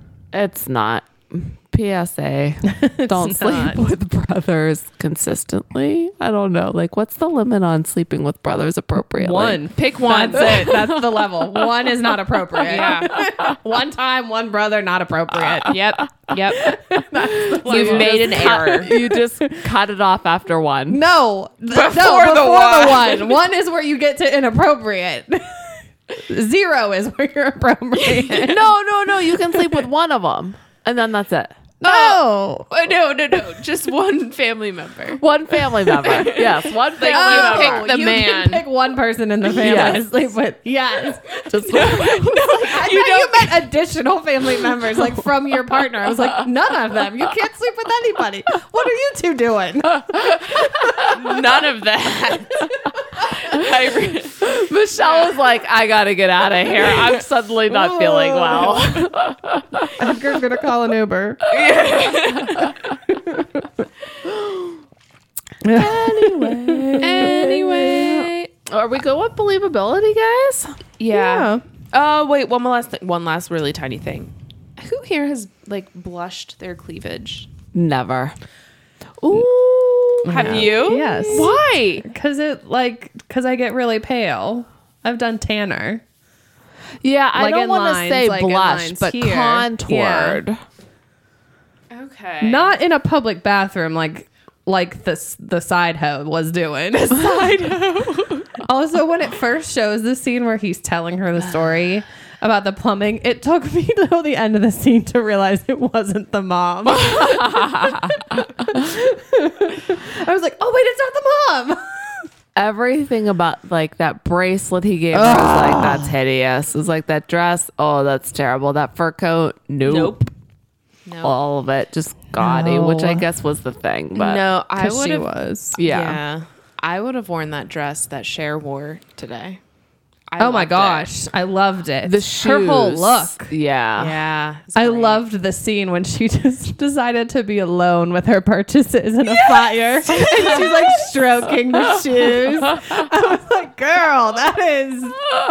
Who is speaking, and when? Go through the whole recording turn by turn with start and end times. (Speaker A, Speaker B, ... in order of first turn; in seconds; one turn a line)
Speaker A: 0.3-9.6
Speaker B: 2.7-3.8
Speaker B: 9.2-15.8
Speaker C: 9.7-11.0
Speaker C: 12.7-13.1
Speaker C: 15.6-16.8
Speaker B: 16.5-19.6
Speaker A: 17.4-21.0
Speaker C: 17.6-18.9
Speaker B: 20.9-28.7
Speaker C: 21.7-23.3
Speaker C: 27.9-28.6
Speaker A: 28.4-31.6
Speaker C: 29.4-29.7
Speaker B: 31.8-32.6
Speaker C: 31.8-38.6
Speaker A: 35.2-37.9
Speaker B: 37.0-51.2
Speaker A: 39.5-40.0
Speaker C: 41.5-43.7
Speaker A: 41.6-42.0
Speaker C: 51.0-54.5
Speaker A: 54.4-59.9
Speaker C: 55.0-55.3
Speaker B: 57.9-58.9
Speaker B: 59.9-61.5
Speaker C: 61.5-62.7
Speaker B: 63.1-63.5
Speaker A: 64.2-64.7
Speaker B: 65.6-67.5
Speaker A: 65.7-70.8
Speaker C: 67.0-68.5
Speaker C: 71.0-77.5
Speaker B: 71.1-71.6
Speaker A: 77.7-78.3
Speaker A: 79.2-81.5
Speaker B: 80.2-86.0
Speaker C: 80.3-82.1
Speaker A: 87.0-90.6
Speaker B: 87.3-90.4
Speaker C: 91.9-92.8
Speaker B: 92.4-97.7
Speaker C: 97.1-98.5
Speaker B: 98.6-112.2
Speaker A: 106.9-108.1
Speaker A: 112.5-120.2
Speaker B: 115.1-116.1
Speaker C: 119.8-120.3
Speaker C: 121.0-121.3
Speaker A: 121.2-124.4
Speaker B: 122.4-123.2
Speaker C: 124.1-129.6
Speaker B: 124.8-125.8
Speaker A: 125.8-126.2
Speaker C: 130.3-131.2
Speaker B: 130.4-133.5
Speaker A: 132.0-134.2
Speaker C: 134.0-135.2
Speaker B: 134.8-145.3
Speaker C: 139.3-141.1